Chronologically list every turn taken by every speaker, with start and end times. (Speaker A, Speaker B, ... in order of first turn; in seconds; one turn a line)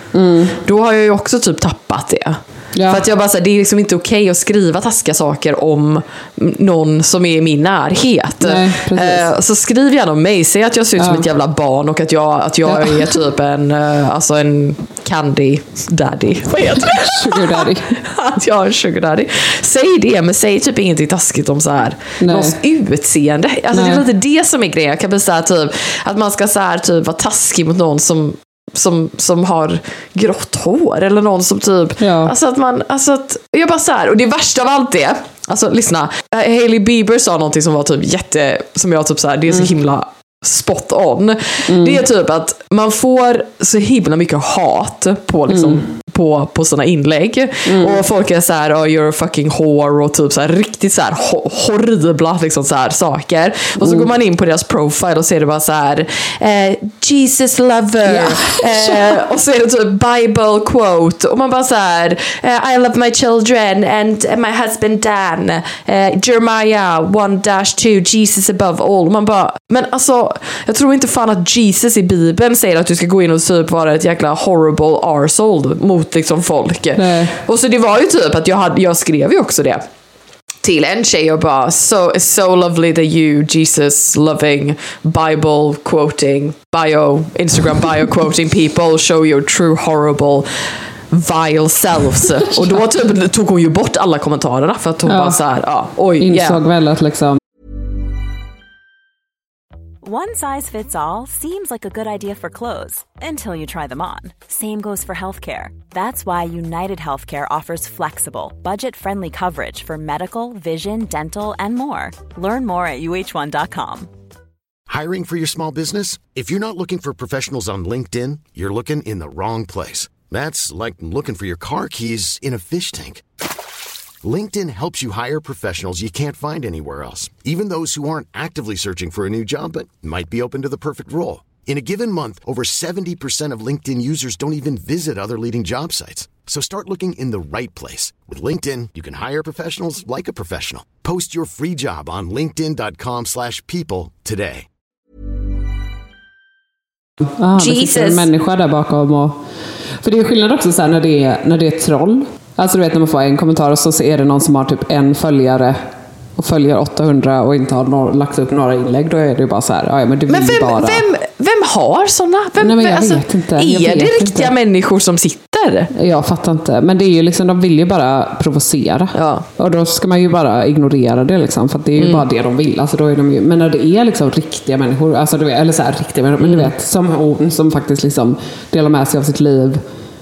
Speaker A: 0.1-0.6
Speaker B: 0.6-79.8
Speaker A: 2.7-3.0
Speaker A: 8.4-9.3
Speaker A: 11.0-11.3
Speaker A: 12.7-13.2
Speaker A: 16.8-17.9
Speaker A: 22.2-22.6
Speaker A: 23.7-24.0
Speaker A: 32.0-32.3
Speaker A: 41.6-42.0
Speaker A: 45.5-45.8
Speaker A: 47.6-48.0
Speaker A: 53.8-54.1
Speaker A: 58.1-59.1
Speaker A: 77.0-77.4
Speaker B: 80.6-90.5
Speaker B: 91.1-96.6
Speaker A: 95.0-95.4
Speaker A: 96.2-97.4
Speaker C: 100.0-114.1
Speaker D: 114.9-123.2
Speaker D: 124.2-144.7
Speaker A: 147.4-149.4
Speaker B: 147.5-148.3
Speaker A: 150.0-155.8
Speaker A: 156.3-161.0
Speaker B: 160.3-165.9
Speaker A: 162.6-164.5
Speaker A: 165.9-179.8
Speaker B: 169.1-169.4
Speaker B: 171.9-172.2
Speaker B: 176.4-176.7